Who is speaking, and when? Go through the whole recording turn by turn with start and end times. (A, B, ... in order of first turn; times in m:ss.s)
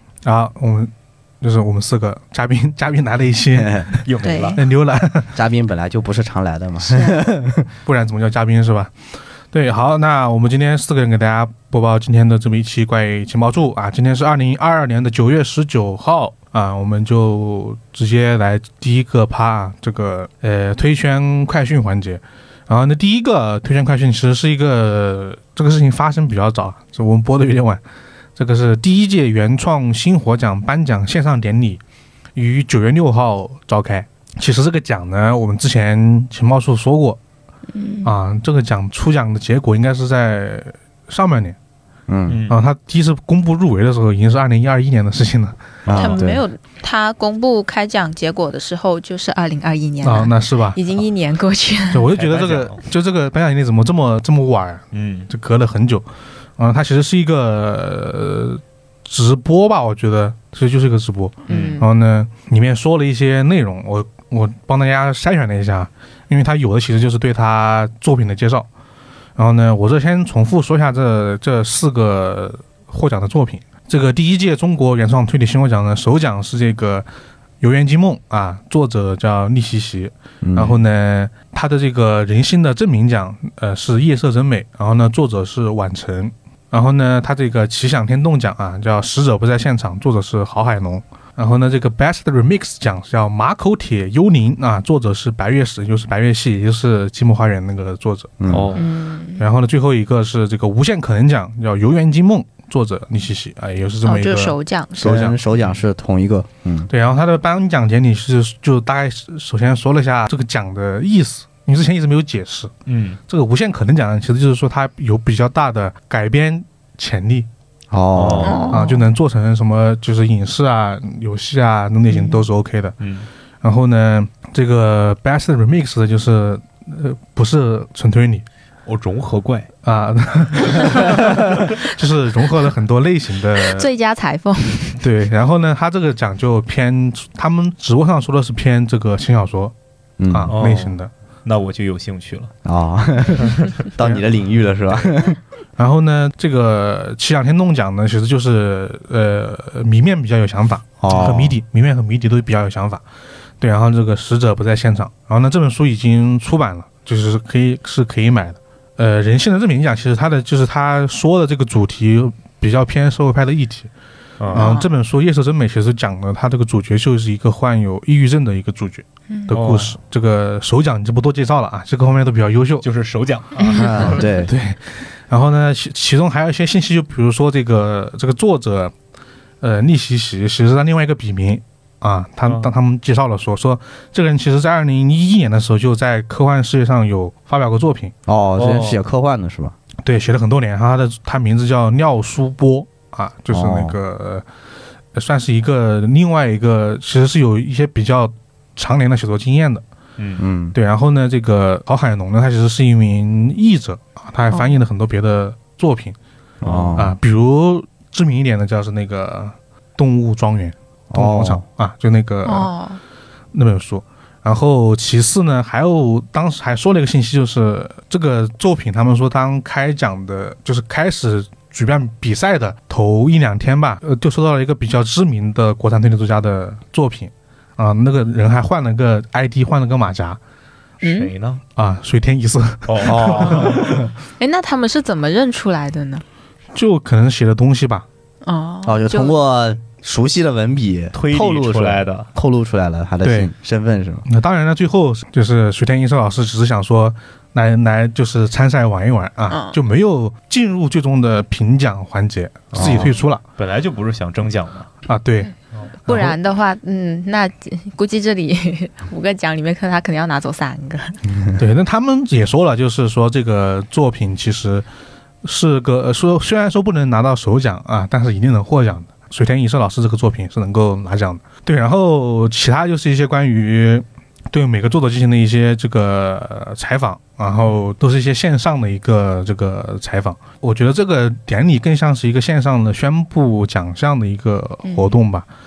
0:00.2-0:00.9 A
0:01.4-0:05.3 A
0:03.6-0:03.9 B
0:04.0-0:04.6 C
0:04.2-0:04.6 D
0:05.4-0:07.7 B
0:06.9-0:07.2 D
0:07.8-0:08.9 A
0:09.5-0:27.8 A
0:28.4-0:31.8 A
0:32.4-0:37.2 A
0:37.7-0:38.1 D
0:38.0-0:41.6 A
0:42.1-0:42.4 B
0:42.3-0:42.6 C
0:42.5-0:45.6 A
0:45.9-0:46.4 B
0:45.9-0:46.2 C
0:46.0-0:52.1 D
0:50.0-0:50.8 A
0:51.9-0:56.1 A
0:52.1-0:52.8 C
0:54.9-0:55.3 C
0:56.6-1:08.7 A
1:01.5-1:01.9 D
1:01.5-1:01.8 C
1:09.4-1:17.1 A
1:17.6-1:38.4 A
1:20.4-1:20.8 B
1:38.4-1:38.7 B
1:38.5-1:38.8 C
1:38.8-1:39.5 D
1:39.4-1:45.4 A
1:44.0-1:45.1 D
1:45.0-1:46.9 B
1:45.6-1:45.8 C
1:46.9-1:52.7 A
1:52.9-1:53.2 C
1:53.3-1:57.5 A
1:57.9-1:58.7 B
1:58.1-1:58.7 C
1:58.4-1:59.0 D
1:58.7-2:03.0 A
2:02.1-2:02.4 D
2:03.0-2:03.3 C
2:03.6-2:08.4 A
2:08.9-2:09.7 C
2:09.8-2:13.9 A
2:13.6-2:15.0 D
2:15.0-2:19.7 A
2:20.2-2:20.6 B
2:20.3-2:21.1 A
2:20.5-2:22.5 C
2:22.6-2:25.4 B
2:23.4-2:23.8 C
2:25.8-2:33.0 A
2:31.0-2:31.6 B
2:31.1-2:31.4 C
2:33.6-2:43.9 A
2:44.4-2:44.7 C
2:44.5-2:52.8 A
2:44.6-2:44.9 D
2:49.5-2:50.0 C
2:52.8-2:54.3 C
2:53.6-2:54.0 D
2:53.7-2:54.5 B
2:54.4-2:58.9 A
2:59.6-3:08.1 A
3:02.4-3:02.7 C
3:08.3-3:09.8 B
3:08.6-3:09.0 C
3:10.0-3:14.5 A
3:13.5-3:14.0 B
3:15.1-3:19.8 A
3:20.2-3:20.4 C
3:20.4-3:20.8 B
3:20.7-3:26.2 A
3:24.5-3:24.8 D
3:26.6-3:27.2 B
3:26.6-3:27.0 C
3:27.0-3:32.7 A
3:31.1-3:31.6 B
3:32.4-3:33.0 D
3:33.5-3:50.4 A
3:51.0-3:51.3 D
3:51.0-3:51.6 C
3:51.8-3:54.0 A
3:52.9-3:54.0 C
3:53.0-3:53.8 B
3:54.4-3:56.2 D
3:56.7-3:58.1 A
3:58.4-3:59.3 D
3:58.9-4:04.2 B
4:01.1-4:02.3 C
4:03.2-4:03.5 A
4:04.3-4:13.4 A
4:09.5-4:09.8 D
4:12.7-4:13.0 C
4:12.8-4:13.2 B
4:13.6-4:14.9 C
4:15.1-4:15.5 A
4:16.1-4:16.4 A
4:16.1-4:21.2 D
4:21.6-4:24.9 A
4:25.4-4:45.5 A
4:44.8-4:45.2 D